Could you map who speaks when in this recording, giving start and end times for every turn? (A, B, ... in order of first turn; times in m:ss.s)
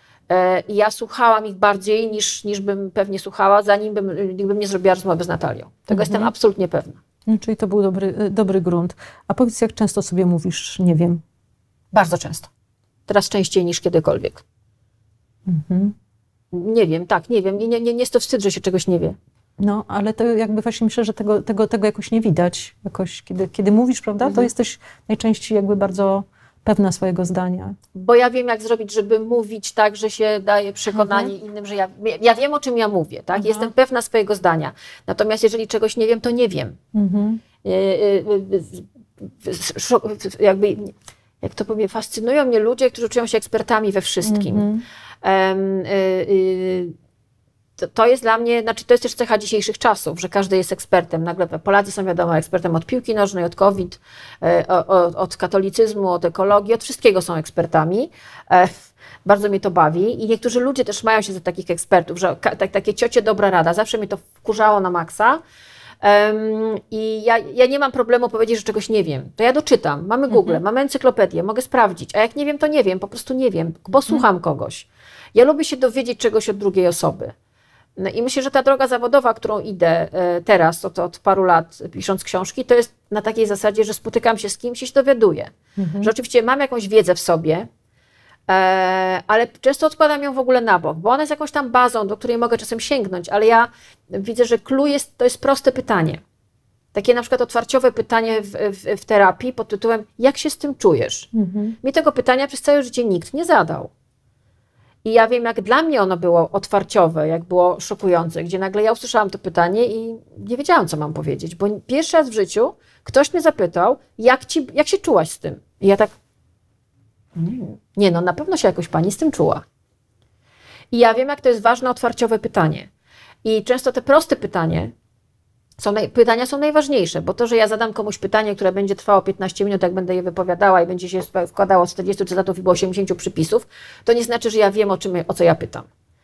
0:00.3-0:07.0 A
0:05.9-0:06.3 B
0:07.3-0:11.2 B
0:11.9-0:12.5 A
0:13.1-0:14.4 A
0:15.5-0:16.0 B
0:16.5-0:19.2 A
0:19.6-0:27.8 B
0:24.2-0:24.5 A
0:27.9-0:36.8 A
0:30.9-0:31.3 B
0:33.3-0:33.7 B
0:36.9-0:37.4 B
0:37.6-0:44.7 A
0:44.3-0:44.8 B
0:45.2-0:46.9 A
0:47.8-1:05.4 A
1:06.0-1:17.3 A
1:10.3-1:10.6 B
1:18.0-1:27.7 A
1:25.8-1:26.1 B
1:28.5-1:36.2 A
1:36.9-1:41.3 A
1:41.3-1:41.8 B
1:41.8-1:43.9 A
1:45.0-1:56.1 A
1:57.4-1:59.6 A
2:00.9-2:02.9 A
2:03.4-2:04.9 A
2:05.8-2:15.9 A